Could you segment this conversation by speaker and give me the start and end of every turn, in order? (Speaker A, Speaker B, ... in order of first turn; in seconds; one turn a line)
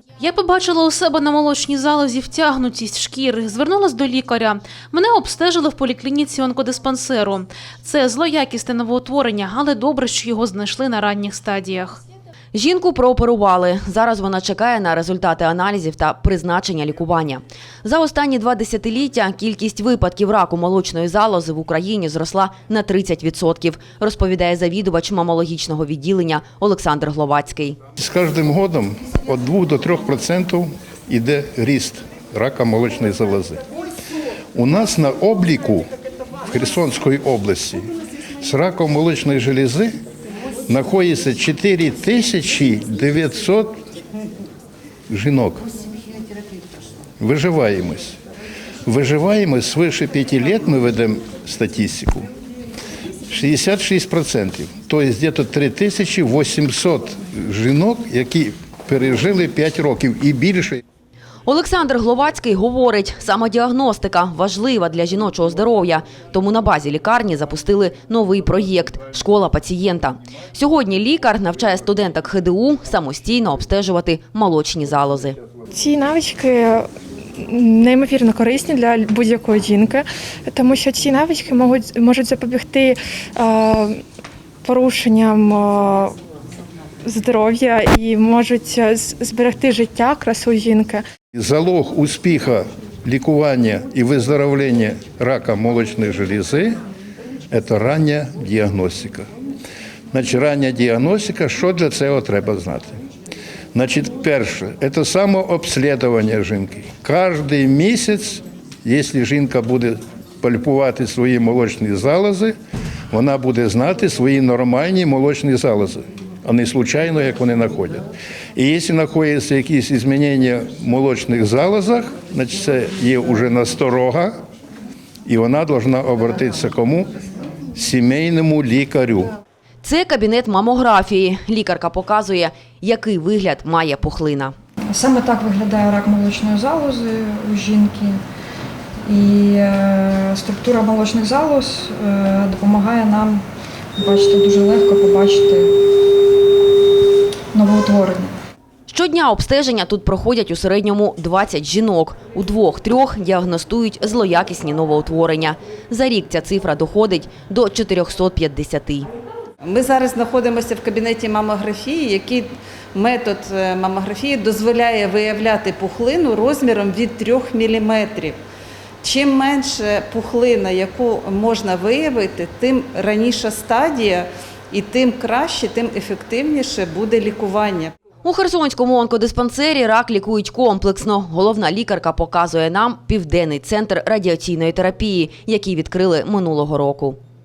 Speaker A: 0.2-12.0
Speaker B: 12.5-27.8
Speaker C: 28.0-33.6
Speaker C: 34.5-35.9
Speaker C: 36.5-37.9
Speaker C: 38.4-39.9
Speaker C: 40.7-43.8
Speaker C: 45.1-45.7
Speaker C: 47.2-48.2
Speaker C: 48.9-52.3
Speaker C: 53.3-60.8
Speaker B: 61.5-75.4
Speaker D: 75.7-76.9
Speaker D: 77.4-84.0
Speaker D: 84.6-86.2
Speaker D: 87.0-91.0
Speaker C: 91.3-96.8
Speaker C: 97.5-99.2
Speaker C: 100.1-103.0
Speaker C: 103.7-112.5
Speaker C: 113.1-124.3
Speaker C: 125.2-127.1
Speaker C: 127.7-129.3
Speaker B: 129.8-134.5
Speaker E: 134.9-138.2
Speaker E: 139.1-143.4
Speaker E: 144.0-145.7
Speaker E: 147.5-148.3
Speaker B: 148.9-159.1
Speaker F: 159.6-168.4
Speaker F: 169.0-177.9
Speaker B: 178.2-187.2